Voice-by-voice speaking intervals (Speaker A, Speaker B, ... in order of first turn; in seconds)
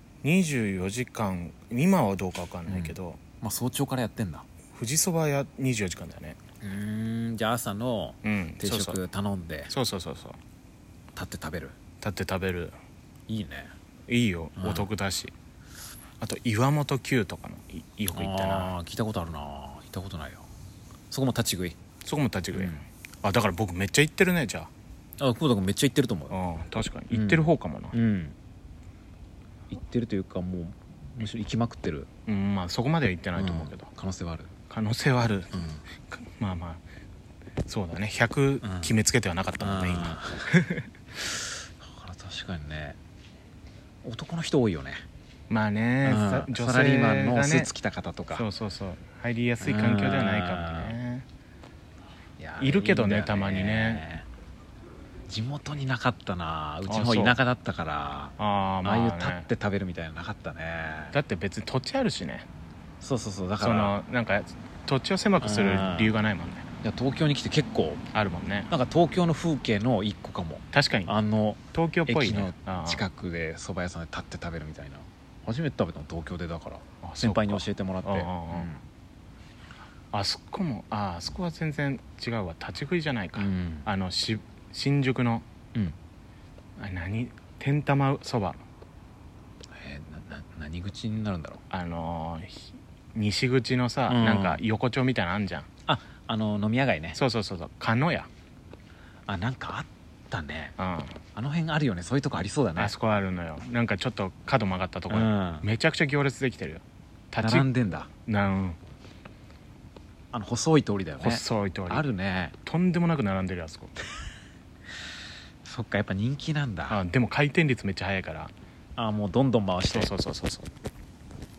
Speaker A: 0.2-3.2, 4.7-6.4, 8.2-9.0, 9.7-10.4, 12.0-12.8, 14.1-15.3, 16.2-18.7, 22.1-24.7, 26.3-27.9, 32.3-33.9, 34.7-35.5, 36.2-36.8, 37.7-40.9, 45.5-47.7, 48.3-51.3, 52.6-54.0, 56.9-57.4, 58.4-59.5, 61.1-62.5, 63.6-66.7, 68.1-68.7, 70.7-71.1, 71.7-73.1, 77.0-78.7, 80.1-85.5, 86.8-88.6, 91.7-95.7, 97.2-98.3, 100.8-101.2, 102.8-107.7, 108.3-108.8, 111.2-112.0, 112.7-113.9, 116.9-118.5, 119.9-120.7
Speaker B: 2.7-4.5, 6.6-9.7, 11.2-11.8, 13.3-13.7, 14.6-14.9, 18.1-20.5, 21.1-21.8, 22.5-22.9, 25.2-26.4, 27.1-28.4, 29.7-32.1, 33.4-34.5, 35.5-35.8, 38.6-39.0, 39.6-40.5, 41.8-43.0, 44.0-45.0, 46.0-48.5, 49.6-51.0, 52.4-54.3, 55.3-61.2, 63.0-64.0, 65.4-66.2, 66.8-68.0, 68.7-78.8, 83.4-83.9, 89.7-91.6, 94.1-94.6, 95.9-97.2, 99.3-100.8, 101.3-102.9, 105.1-105.7, 107.4-108.1, 110.3-112.6, 115.7-117.0, 119.0-120.1